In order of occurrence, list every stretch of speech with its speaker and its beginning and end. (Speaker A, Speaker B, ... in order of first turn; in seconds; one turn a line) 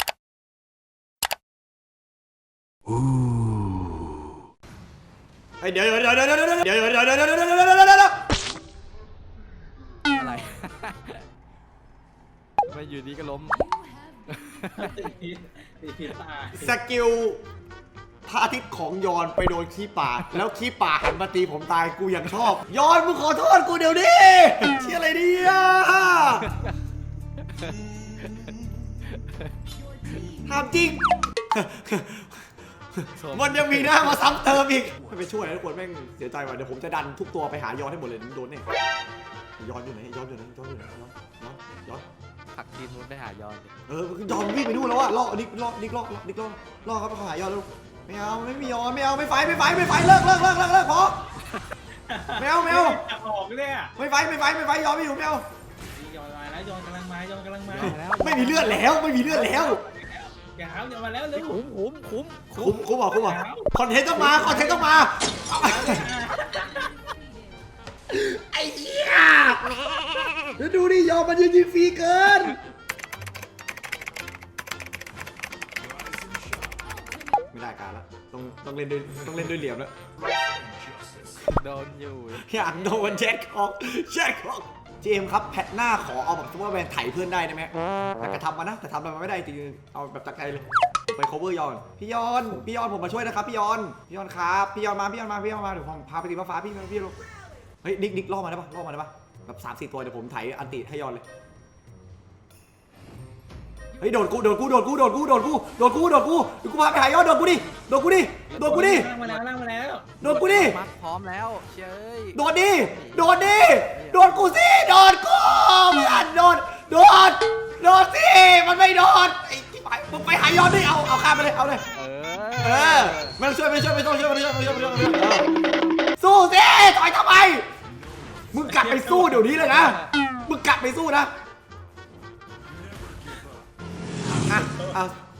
Speaker A: 5.6-8.2
Speaker B: 10.1-11.2
Speaker B: 12.7-13.8
Speaker B: 14.3-14.8
Speaker C: 14.8-16.7
Speaker A: 16.5-17.4
Speaker A: 18.3-26.5
Speaker A: 30.4-38.6
Speaker B: 33.2-34.2
Speaker A: 39.6-42.0
Speaker B: 42.5-43.7
Speaker A: 43.9-51.2
Speaker C: 52.1-53.9
Speaker A: 52.4-53.0
Speaker A: 54.0-55.4
Speaker C: 55.9-58.0
Speaker B: 57.7-59.2
Speaker A: 57.8-59.8
Speaker C: 59.2-61.6
Speaker B: 61.3-62.8
Speaker A: 62.5-66.1
Speaker C: 63.1-66.9
Speaker B: 64.3-64.7
Speaker A: 68.1-69.6
Speaker A: 70.6-72.6
Speaker A: 77.5-79.9
Speaker B: 81.5-82.5
Speaker A: 82.3-97.2
Speaker A: 97.8-101.2
Speaker A: 104.0-109.1
Speaker C: 108.5-110.2
Speaker A: 110.2-110.8
Speaker B: 110.2-114.5
Speaker A: 112.3-121.8
Speaker B: 121.9-123.4
Speaker A: 122.6-125.5
Speaker B: 124.6-125.4
Speaker A: 126.2-127.7
Speaker A: 128.5-131.3
Speaker C: 128.8-129.4
Speaker B: 129.6-130.1
Speaker A: 134.4-135.2
Speaker C: 134.6-134.9